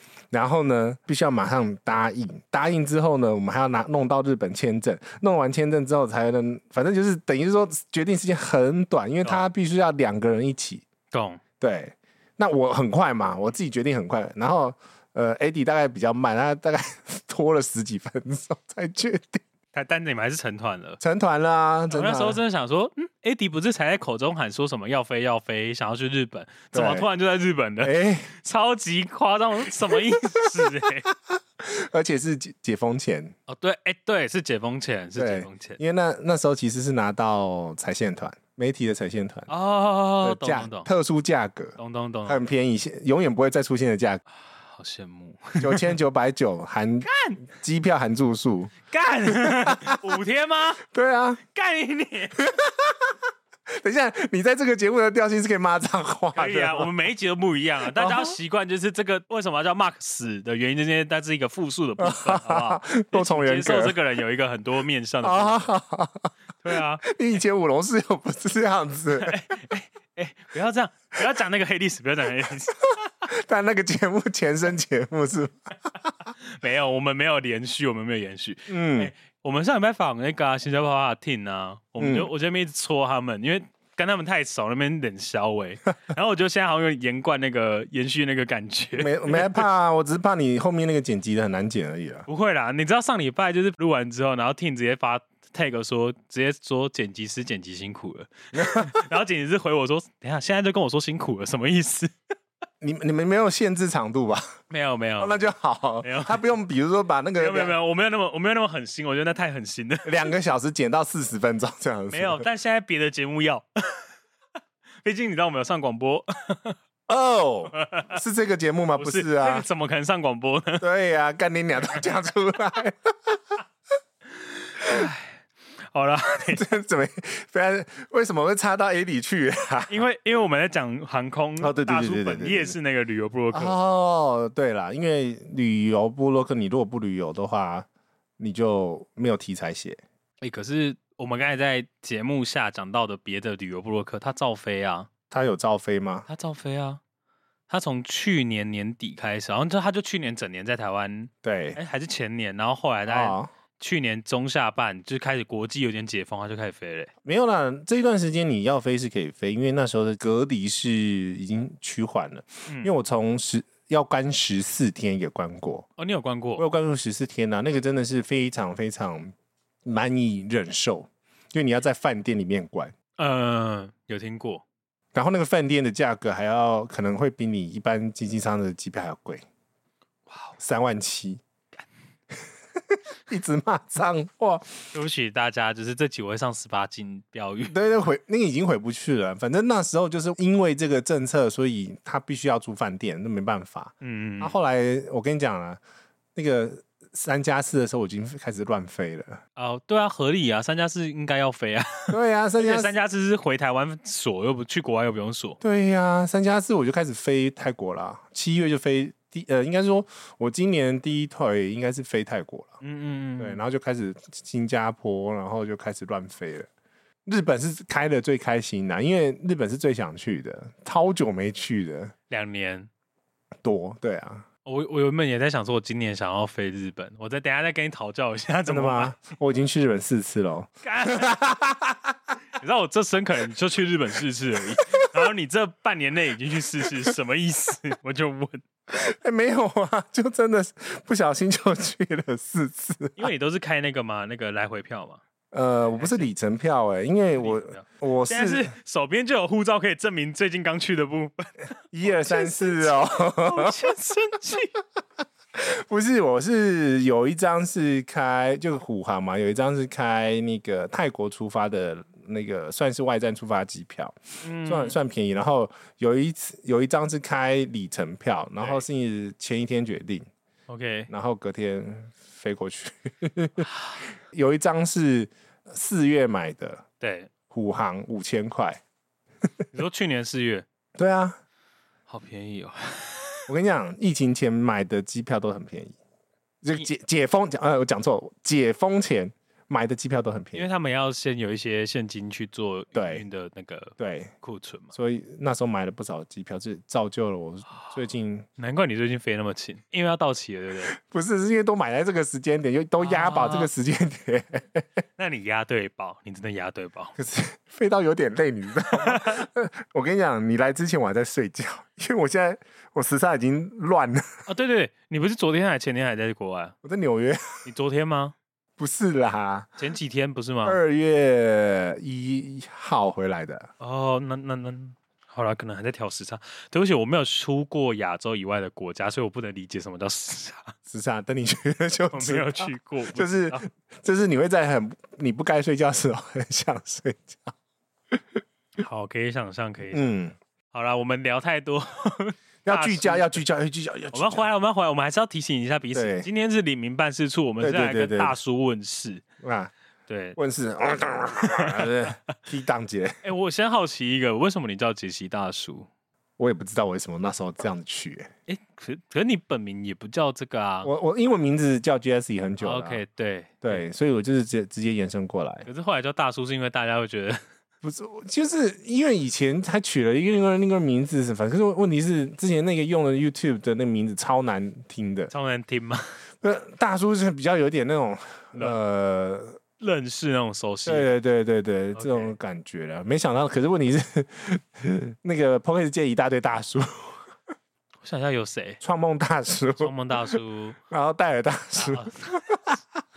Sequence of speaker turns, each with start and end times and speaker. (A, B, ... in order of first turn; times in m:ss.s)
0:00.3-0:10.8 A
0:11.1-0:11.4 B
0:11.6-0:19.4 A
0:19.7-0:21.0 B
0:21.0-0:22.4 A
0:21.9-0:31.1 B
0:26.7-0:27.1 A
0:27.8-0:28.3 A
0:29.9-0:33.4 A
0:33.5-0:35.8 B
0:35.2-0:39.5 A
0:39.5-0:40.9 B
0:40.2-0:44.2 A
0:41.8-0:42.4 B
0:44.5-0:46.0 B
0:45.6-0:48.7 A
0:47.0-0:47.4 B
0:48.9-0:50.8 B
0:49.4-0:50.0 A
0:50.8-0:51.4 A
0:51.5-0:52.5 B
0:52.4-0:53.2 A
0:53.7-0:56.9 A
0:56.3-1:05.7 B
0:57.9-0:58.4 A
1:02.0-1:04.0 A
1:05.2-1:06.3 A
1:06.6-1:07.0 B
1:07.0-1:09.4 A
1:09.2-1:13.0 B
1:13.0-1:15.7 A
1:16.2-1:29.6 B
1:18.7-1:19.1 A
1:22.0-1:22.3 A
1:29.0-1:32.2 A
1:32.3-1:42.1 B
1:38.5-1:39.0 A
1:42.8-1:44.6 A
1:44.7-1:45.5 B
1:45.2-1:47.7 A
1:46.0-1:46.4 B
1:47.4-1:50.3 B
1:50.0-1:52.5 A
1:52.1-1:54.0 B
1:55.0-1:56.8 B
1:57.1-1:59.6 A
1:57.7-1:58.2 B
1:59.0-2:00.9 B
2:00.8-2:03.6 A
2:04.5-2:06.6 B
2:04.8-2:05.1 A
2:06.5-2:10.0 A
2:09.9-2:13.8 B
2:11.6-2:12.8 A
2:13.5-2:17.9 A
2:18.4-2:20.0 A
2:20.4-2:25.1 B
2:25.3-2:26.3 A
2:26.3-2:27.0 B
2:27.7-2:37.1 B
2:31.4-2:31.8 A
2:33.1-2:33.5 A
2:37.2-2:45.9 A
2:42.7-2:42.9 B
2:46.0-2:46.6 B
2:46.6-2:49.3 A
2:49.8-2:52.9 A
2:53.2-2:54.6 B
2:55.1-2:59.4 A
3:00.6-3:01.4 A
3:02.8-3:04.8 A
3:04.9-3:07.8 B
3:07.7-3:15.8 A
3:14.0-3:14.6 B
3:16.4-3:19.4 A
3:19.6-3:25.6 B
3:22.1-3:22.9 A
3:25.6-3:32.8 A
3:32.8-3:33.6 B
3:33.4-3:36.7 A
3:37.2-3:42.1 A
3:42.3-3:42.9 B
3:43.6-3:44.5 A
3:44.6-3:49.2 B
3:48.7-3:52.1 A
3:50.8-3:51.4 B
3:52.5-3:58.6 B
3:58.9-4:03.3 A
4:03.2-4:05.2 B
4:05.5-4:08.7 A
4:05.9-4:06.3 B
4:07.4-4:11.5 B
4:11.9-4:13.7 A
4:12.0-4:14.8 B
4:15.5-4:30.3 A
4:24.4-4:25.0 B
4:30.7-4:31.1 B
4:31.1-4:33.7 A
4:33.7-4:34.0 B
4:34.3-4:36.8 A
4:37.0-4:37.3 B
4:37.5-4:38.8 A
4:39.7-4:40.6 B
4:41.0-4:41.4 A
4:42.1-4:43.5 B
4:43.5-4:46.0 A
4:46.6-4:50.7 A
4:50.5-4:54.9 B
4:53.0-4:53.2 A
4:54.0-4:54.3 A
4:54.9-4:58.5 A
4:58.6-5:00.9 B
5:00.9-5:04.9 A
5:03.0-5:03.7 B
5:05.2-5:07.1 B
5:07.2-5:14.4 A
5:08.9-5:09.4 B
5:14.5-5:16.8 B
5:16.8-5:17.4 A
5:17.6-5:18.4 B
5:18.8-5:19.7 A
5:19.8-5:20.8 B
5:20.6-5:23.7 A
5:23.8-5:30.8 B
5:30.9-5:37.5 A
5:32.1-5:33.7 B
5:38.1-5:38.4 A
5:38.8-5:40.1 B
5:39.9-5:40.4 A
5:40.7-5:43.4 B
5:42.6-5:44.4 A
5:44.1-5:49.2 B
5:45.9-5:46.3 A
5:47.6-5:48.4 A
5:49.4-5:49.7 A
5:50.1-5:50.4 B
5:50.4-5:53.2 A
5:51.4-5:51.9 B
5:53.2-5:55.9 B
5:56.4-5:58.3 A
5:58.5-6:00.9 B
6:00.8-6:03.0 A
6:02.6-6:03.8 B
6:03.6-6:05.6 A
6:05.6-6:07.4 B
6:07.8-6:15.3 A
6:15.3-6:16.2 B
6:16.4-6:19.6 A
6:19.8-6:21.1 B
6:20.9-6:27.2 A
6:22.0-6:22.3 B
6:28.0-6:28.8 B
6:28.8-6:30.4 A
6:29.8-6:30.8 B
6:30.9-6:33.0 A
6:31.8-6:32.4 B